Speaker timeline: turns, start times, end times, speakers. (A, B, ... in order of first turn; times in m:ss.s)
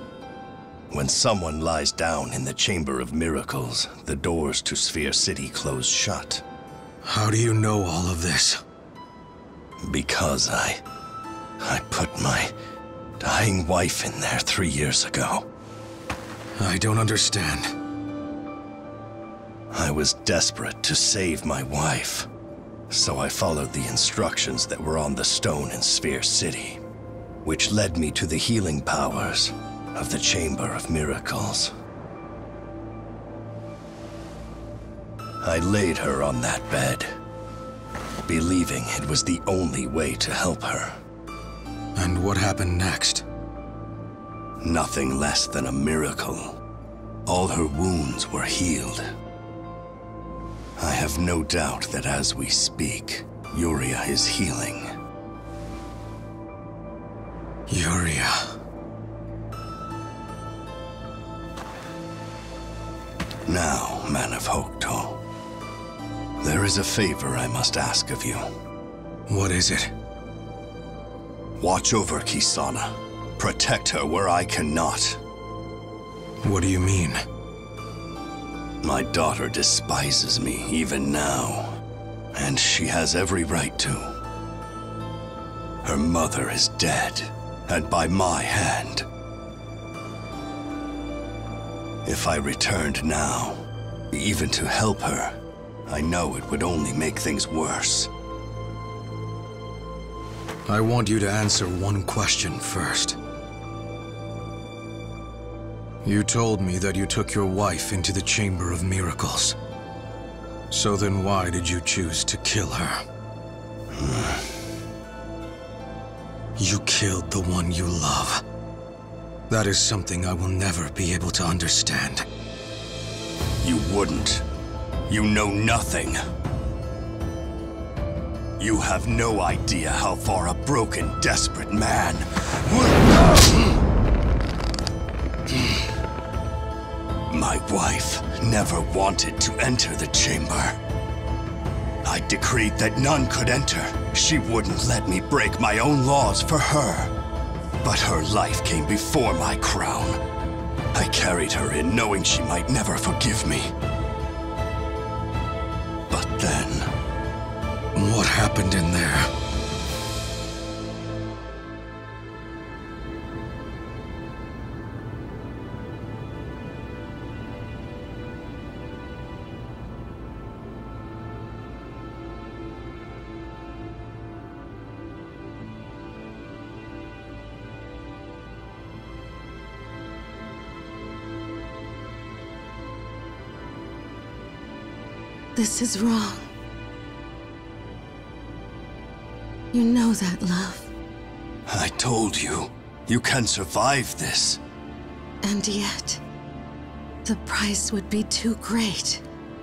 0:00.9-0:06.4 A
0:07.0-0:08.6 B
0:09.8-0:10.8 A
0:11.6-0:12.5 A
0:13.2-0:15.5 A
0:16.6-0:17.7 B
0:19.7-0:22.3 A
0:22.9-0:26.8 A
0:27.4-0:31.7 A
0:35.4-0:37.1 A
0:38.3-0:41.0 A
0:42.0-0:43.2 B
0:44.6-0:46.6 A
0:47.3-0:49.0 A
0:50.8-0:54.9 A
0:57.7-0:58.5 B
1:03.5-1:05.2 A
1:06.4-1:08.4 A
1:09.3-1:09.9 B
1:11.6-1:15.2 A
1:16.4-1:17.2 B
1:18.8-1:21.8 A
1:22.3-1:24.1 A
1:25.8-1:29.1 A
1:32.0-1:38.1 A
1:40.7-1:43.2 B
1:46.0-1:49.6 B
1:50.7-1:53.0 B
1:53.9-1:54.6 A
1:56.6-1:58.4 B
1:59.5-2:02.2 B
2:03.6-2:04.4 A
2:05.1-2:06.2 A
2:08.6-2:13.2 A
2:17.3-2:20.8 A
2:22.0-2:27.1 A
2:27.8-2:30.2 A
2:30.9-2:33.7 A
2:36.1-2:36.9 A
2:38.0-2:39.3 B
3:05.6-3:06.5 C
3:09.7-3:10.9 C
3:11.7-3:14.6 A
3:15.4-3:16.2 C
3:17.2-3:19.2 C